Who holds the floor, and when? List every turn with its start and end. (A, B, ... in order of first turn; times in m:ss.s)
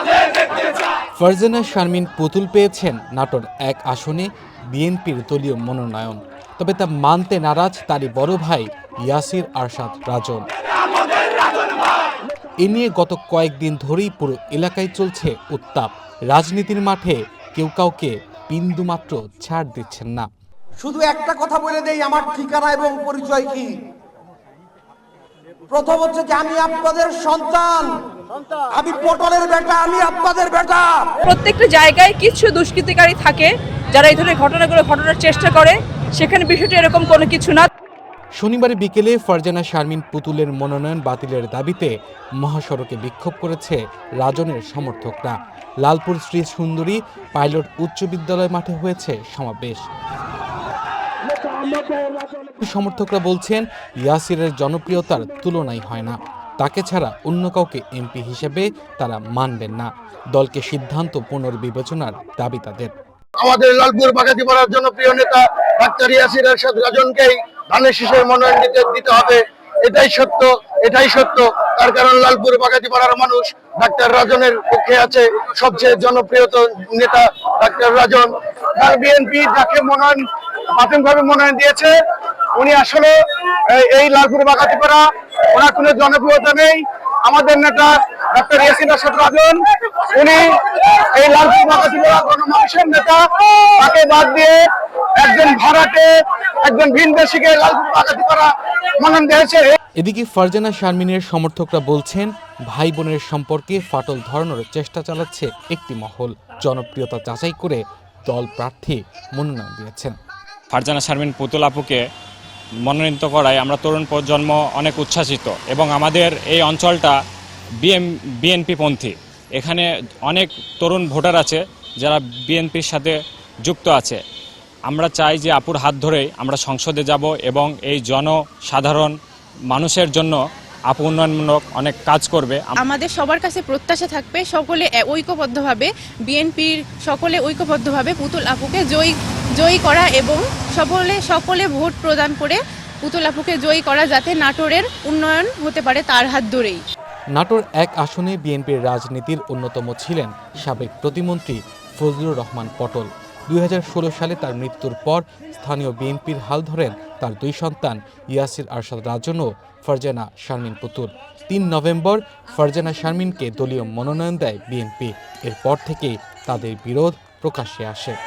0:01.2-0:10.4 A
0:12.6-0:20.3 A
0:20.8-0:23.7 B
0:25.7-0:27.9 B
0:28.7-0:31.1 B
0:31.3-0:37.7 C
0:38.4-0:49.8 A
0:52.6-1:02.9 A
1:03.4-1:20.2 D
1:20.8-1:21.9 D
1:22.6-1:23.2 D
1:23.7-1:29.6 D
1:30.1-1:33.2 D
1:33.8-1:34.6 D
1:35.2-1:36.1 D
1:36.6-1:39.6 D
1:40.0-1:50.2 A
1:50.7-1:52.0 E
1:52.9-1:57.2 E
1:57.8-2:04.2 E
2:04.9-2:09.1 E
2:09.7-2:10.4 E
2:10.9-2:12.8 E
2:12.8-2:26.8 F
2:27.3-2:48.2 A